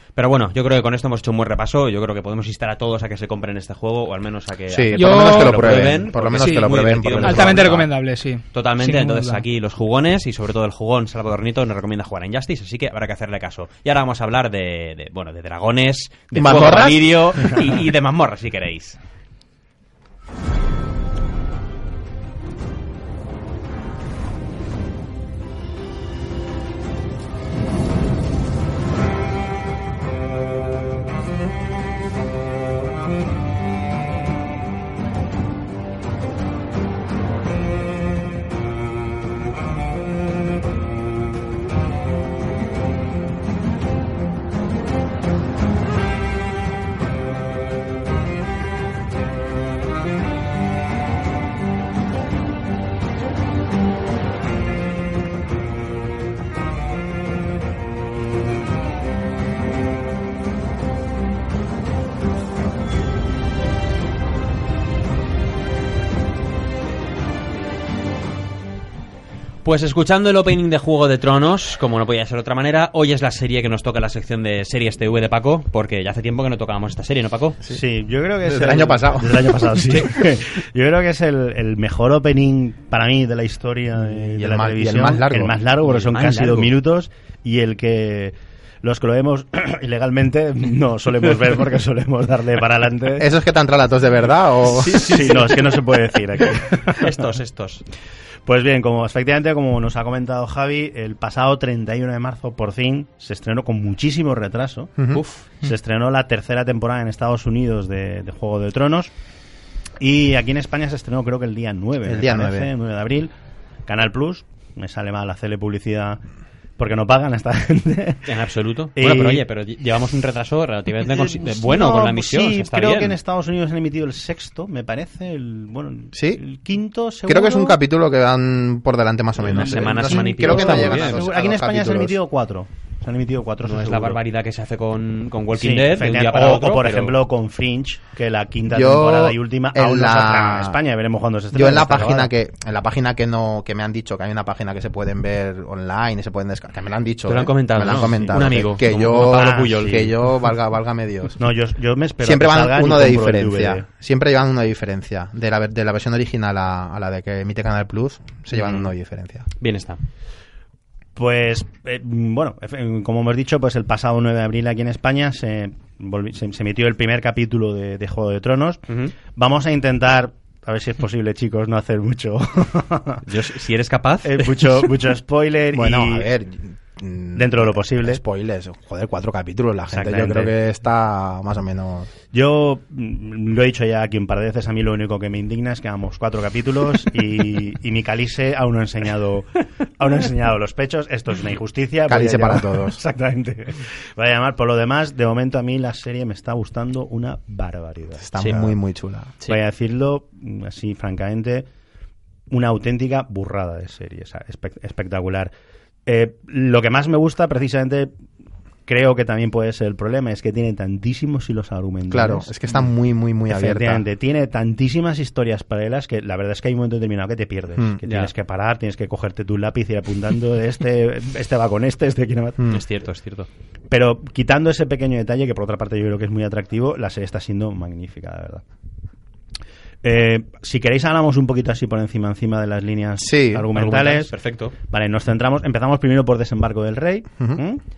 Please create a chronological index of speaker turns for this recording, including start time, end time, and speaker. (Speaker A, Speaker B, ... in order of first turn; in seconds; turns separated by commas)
Speaker A: 0.1-7.8, Speaker B: 4.7-7.9, Speaker C: 4.9-5.9, Speaker C: 6.4-9.4, Speaker A: 8.5-19.0, Speaker B: 16.3-17.6, Speaker A: 69.6-77.6, Speaker D: 77.7-93.3, Speaker B: 78.4-80.0, Speaker B: 84.1-85.6, Speaker A: 85.8-86.7, Speaker B: 93.2-95.3, Speaker A: 94.6-97.8, Speaker D: 94.8-97.1, Speaker D: 98.5-104.9, Speaker A: 105.1-105.5, Speaker D: 105.6-109.1, Speaker D: 110.0-113.3, Speaker B: 112.0-112.7, Speaker D: 113.8-116.2, Speaker D: 116.8-118.3, Speaker A: 118.2-123.2, Speaker D: 119.0-119.4, Speaker D: 121.0-127.8, Speaker B: 126.1-126.4, Speaker B: 127.2-132.2, Speaker A: 129.4-131.3, Speaker D: 129.4-134.2, Speaker A: 133.6-137.2, Speaker D: 135.5-142.3, Speaker B: 138.7-140.8, Speaker B: 141.5-151.4, Speaker A: 147.2-150.1, Speaker D: 147.8-150.1, Speaker D: 151.4-153.8, Speaker B: 152.2-159.5, Speaker A: 158.5-158.9, Speaker A: 159.6-160.0, Speaker D: 161.1-173.2, Speaker A: 168.9-169.1, Speaker A: 173.2-175.0, Speaker D: 174.2-176.3, Speaker B: 175.7-182.1, Speaker D: 177.3-178.2, Speaker D: 179.9-180.5, Speaker D: 182.3-198.7, Speaker B: 192.1-193.0, Speaker B: 198.2-199.3, Speaker D: 199.4-201.7, Speaker D: 202.5-205.5, Speaker D: 206.1-208.1, Speaker D: 208.8-212.5, Speaker B: 212.1-214.0, Speaker D: 213.5-222.6, Speaker A: 218.0-218.3, Speaker B: 222.6-222.8, Speaker A: 222.7-223.5, Speaker D: 223.9-228.6, Speaker D: 230.0-234.3, Speaker B: 233.2-233.7, Speaker A: 233.7-234.7, Speaker D: 234.8-237.8